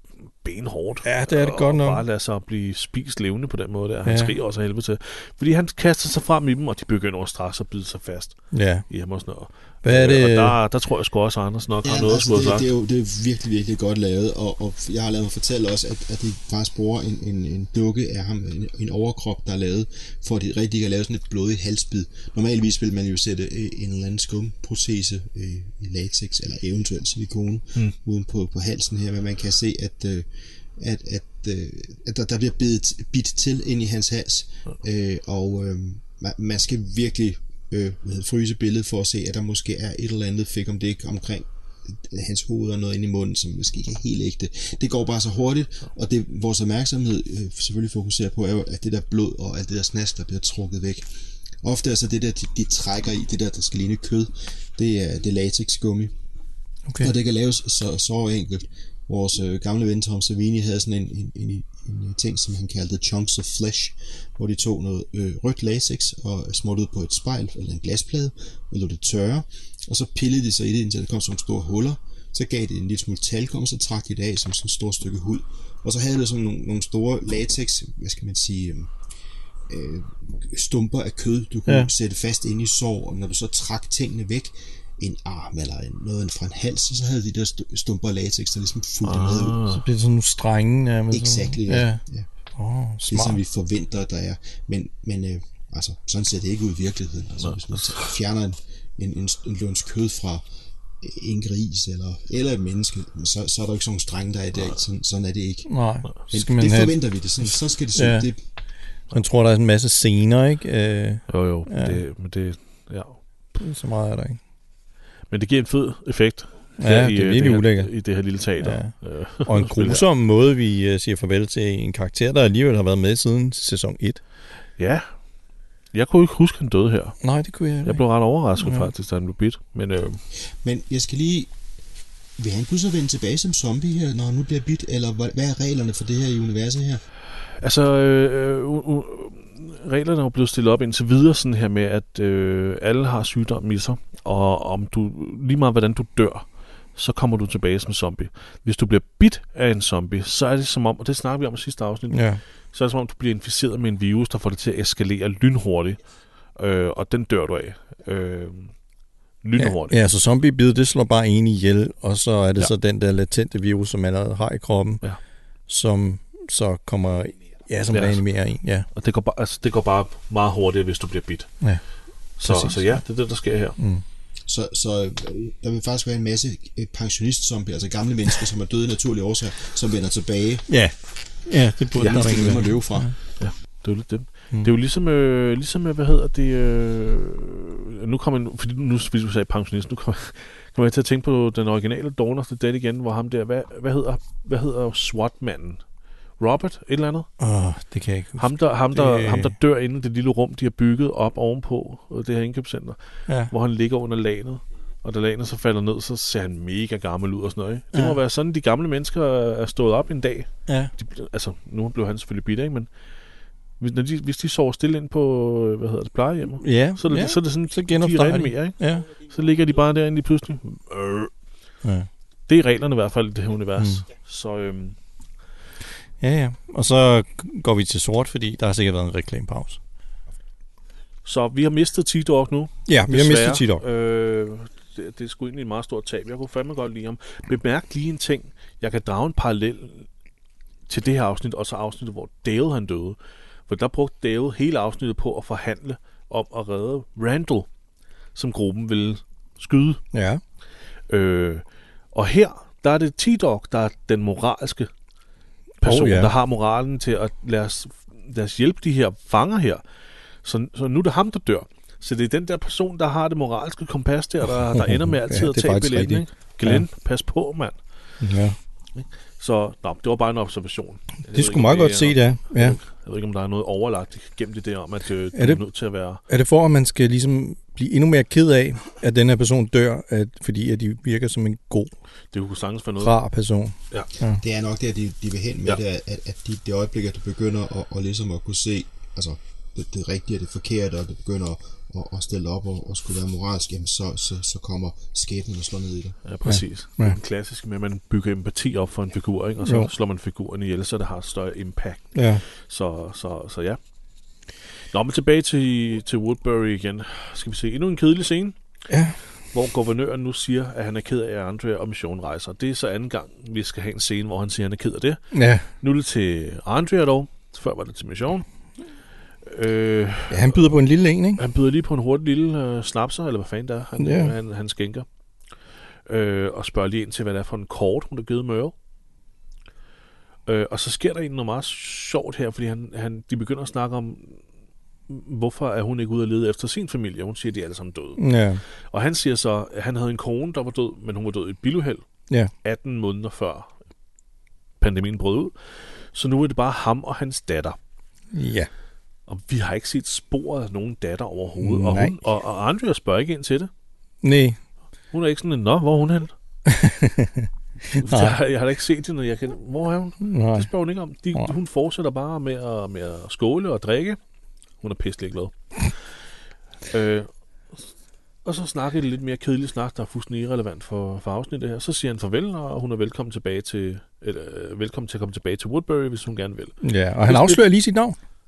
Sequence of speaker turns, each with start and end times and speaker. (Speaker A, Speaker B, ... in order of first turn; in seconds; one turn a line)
Speaker A: 0.4-8.4
Speaker B: 1.0-2.0
Speaker B: 4.0-4.3
Speaker B: 8.5-8.8
Speaker A: 8.9-12.7
Speaker B: 9.8-10.6
Speaker C: 11.8-51.0
Speaker C: 51.6-56.1
Speaker C: 57.0-78.9
Speaker C: 79.7-89.6
Speaker A: 89.0-89.8
Speaker B: 89.7-92.0
Speaker C: 91.1-92.3
Speaker B: 92.5-93.4
Speaker C: 93.0-100.4
Speaker A: 97.4-98.1
Speaker C: 101.0-105.7
Speaker B: 105.7-108.3
Speaker C: 106.3-108.4
Speaker B: 109.1-112.0
Speaker A: 111.3-113.2
Speaker B: 113.5-114.4
Speaker A: 115.3-120.0
Speaker B: 116.8-117.9
Speaker B: 118.6-118.9
Speaker B: 119.4-124.2
Speaker A: 124.8-125.1
Speaker A: 125.9-127.2
Speaker B: 127.2-128.0
Speaker A: 127.8-130.2
Speaker B: 128.6-128.9
Speaker C: 130.6-131.5
Speaker C: 132.4-137.0
Speaker A: 137.6-156.0
Speaker B: 152.1-152.4
Speaker A: 156.6-158.7
Speaker A: 159.4-160.0
Speaker B: 159.6-165.0
Speaker B: 165.7-168.9
Speaker A: 167.9-168.2
Speaker A: 168.9-171.5
Speaker A: 172.4-173.8
Speaker B: 172.4-173.0
Speaker B: 173.8-174.0
Speaker C: 174.5-180.7
Speaker B: 180.7-183.1
Speaker C: 181.9-183.1
Speaker A: 183.4-195.8
Speaker A: 196.4-197.3
Speaker B: 197.4-199.5
Speaker A: 198.4-203.0
Speaker A: 203.5-212.9
Speaker B: 207.9-208.2
Speaker B: 210.7-210.9
Speaker A: 213.8-221.3
Speaker B: 216.6-219.1
Speaker A: 222.5-224.9
Speaker B: 223.8-224.0
Speaker B: 226.2-229.8
Speaker A: 231.2-240.1
Speaker B: 232.8-233.8
Speaker A: 240.9-243.2
Speaker A: 243.7-247.7
Speaker A: 248.3-250.0
Speaker B: 250.1-250.4
Speaker A: 251.1-254.9
Speaker A: 255.8-259.8
Speaker B: 255.8-256.3
Speaker A: 260.4-267.8
Speaker B: 264.4-266.8
Speaker B: 268.2-268.6
Speaker A: 268.9-276.2
Speaker B: 271.3-272.8
Speaker B: 275.3-275.6
Speaker B: 276.3-281.9
Speaker A: 282.3-283.1
Speaker B: 283.0-284.4
Speaker C: 284.4-296.2
Speaker A: 296.2-303.8
Speaker B: 296.4-297.2
Speaker B: 299.6-299.9
Speaker B: 302.1-302.4
Speaker A: 304.9-308.6
Speaker B: 308.9-309.2
Speaker A: 309.5-315.3
Speaker B: 315.3-315.6
Speaker A: 315.8-318.4
Speaker A: 319.4-320.7
Speaker B: 320.3-321.4
Speaker A: 321.4-325.1
Speaker B: 324.0-324.3
Speaker A: 326.1-328.7
Speaker A: 330.5-334.4
Speaker A: 335.1-338.2
Speaker B: 338.2-338.6
Speaker A: 338.9-342.0
Speaker A: 342.6-343.7
Speaker A: 344.8-345.5
Speaker A: 346.1-347.8
Speaker B: 348.3-348.7
Speaker A: 349.3-353.7
Speaker B: 351.6-352.1
Speaker B: 354.2-354.6
Speaker A: 355.1-356.3
Speaker B: 356.6-358.4
Speaker A: 357.9-364.2
Speaker B: 360.2-360.7
Speaker A: 364.8-365.5
Speaker A: 366.9-367.3
Speaker A: 368.4-377.6
Speaker B: 376.8-378.1